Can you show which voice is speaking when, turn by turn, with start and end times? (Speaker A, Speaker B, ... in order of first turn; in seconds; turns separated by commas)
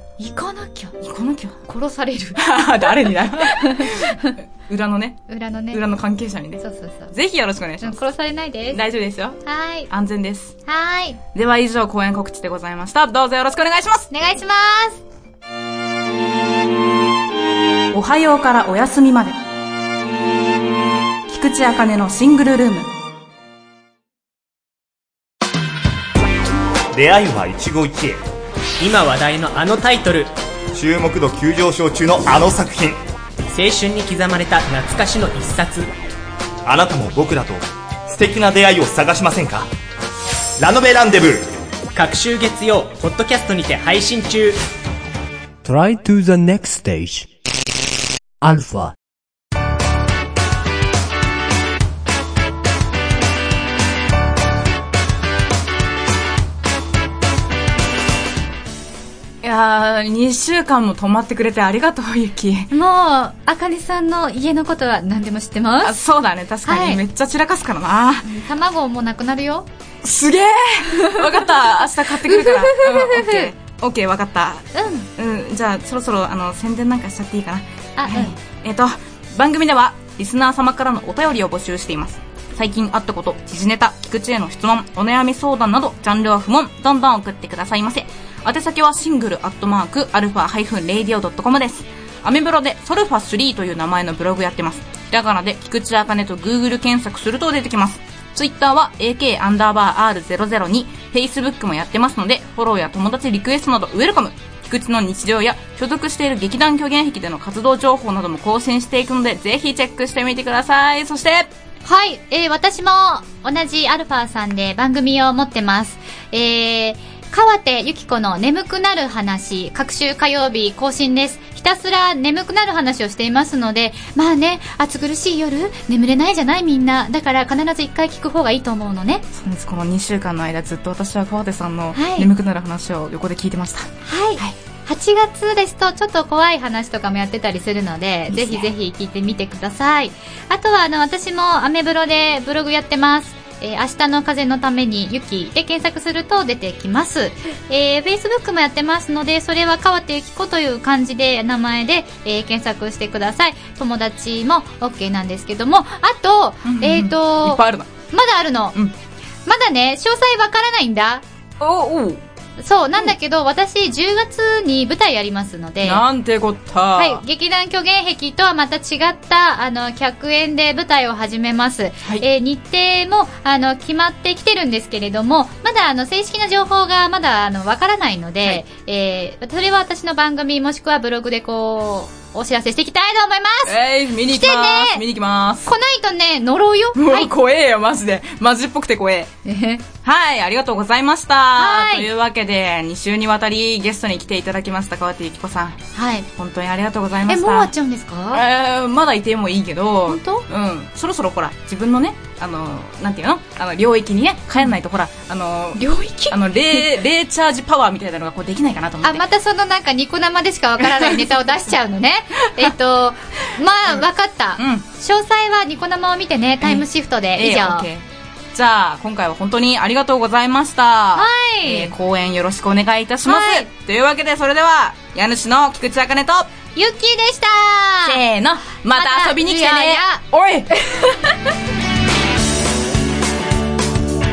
Speaker A: 0.2-0.9, Speaker B: 1.0-1.6, Speaker A: 1.7-4.3, Speaker B: 2.4-8.0, Speaker A: 5.3-5.8, Speaker A: 6.6-7.1, Speaker A: 7.8-8.8, Speaker B: 8.7-10.6, Speaker A: 9.4-9.9, Speaker A: 10.7-11.2, Speaker B: 11.3-14.1, Speaker A: 14.1-15.0, Speaker B: 17.9-19.4, Speaker B: 21.3-22.9, Speaker C: 26.9-28.2, Speaker D: 28.8-30.3, Speaker C: 30.7-33.0, Speaker D: 33.5-35.9, Speaker C: 36.6-39.7, Speaker C: 40.6-41.6, Speaker D: 41.9-44.6, Speaker E: 45.6-47.3, Speaker E: 48.4-48.9, Speaker B: 59.4-62.7, Speaker A: 62.7-66.0, Speaker B: 65.8-68.3, Speaker A: 66.6-67.0, Speaker A: 68.2-69.7, Speaker B: 70.0-111.5, Speaker A: 70.9-71.2, Speaker A: 72.3-73.5, Speaker A: 74.7-75.1, Speaker A: 78.0-78.3, Speaker A: 111.8-129.2, Speaker B: 129.3-134.5, Speaker A: 131.9-132.3, Speaker A: 134.0-157.6, Speaker B: 138.3-138.7, Speaker B: 156.6-157.9, Speaker A: 158.1-158.8, Speaker A: 159.4-161.2, Speaker B: 161.6-162.2, Speaker A: 162.6-166.0, Speaker B: 165.8-167.2, Speaker A: 166.9-185.0, Speaker B: 183.6-185.7, Speaker A: 185.6-187.3, Speaker B: 186.9-189.3, Speaker A: 189.4-189.8, Speaker B: 190.0-195.8, Speaker A: 191.6-192.1, Speaker A: 195.9-196.3, Speaker B: 196.3-197.7, Speaker A: 197.3-198.4, Speaker B: 198.3-209.2, Speaker A: 200.1-200.4, Speaker A: 205.8-206.8, Speaker A: 209.0-217.9, Speaker B: 210.9-211.2, Speaker B: 214.6-214.8, Speaker B: 216.6-226.5, Speaker A: 221.1-221.9, Speaker A: 223.2-223.7, Speaker A: 226.7-228.2, Speaker B: 228.0-231.2, Speaker A: 228.9-230.2